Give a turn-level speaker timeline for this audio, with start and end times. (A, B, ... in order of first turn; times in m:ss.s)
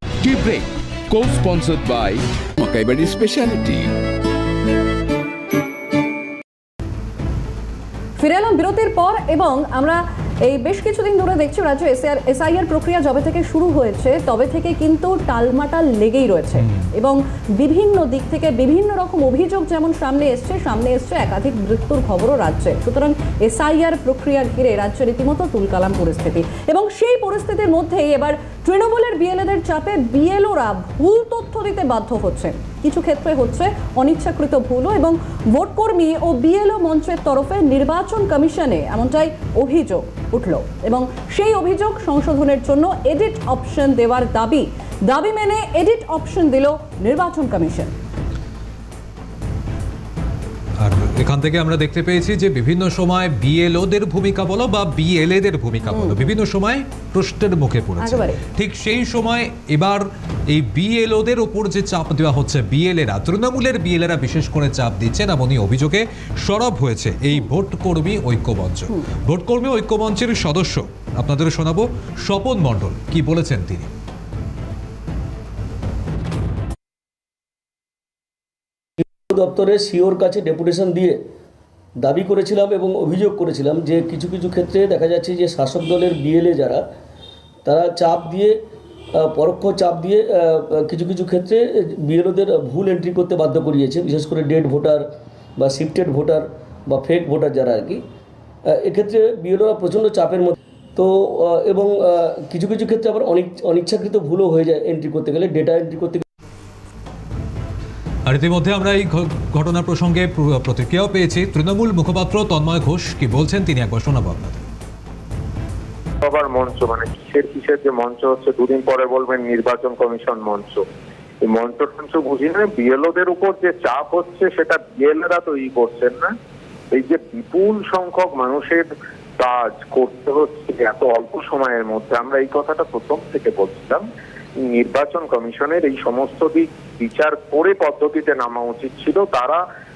0:00.2-0:03.9 A
0:08.2-0:47.9 B
0:50.8-1:13.9 C
0:55.9-0:56.3 B
0:58.0-0:58.4 B
1:19.3-1:21.2 D
1:22.0-1:26.9 D
1:27.7-1:28.6 D
1:29.2-1:35.1 D
1:35.6-1:38.0 D
1:38.7-1:46.2 D
1:48.3-1:54.7 C
1:56.2-2:00.8 E
2:01.4-2:06.4 E
2:06.9-2:08.9 E
2:09.4-2:14.0 E
2:14.7-2:19.6 E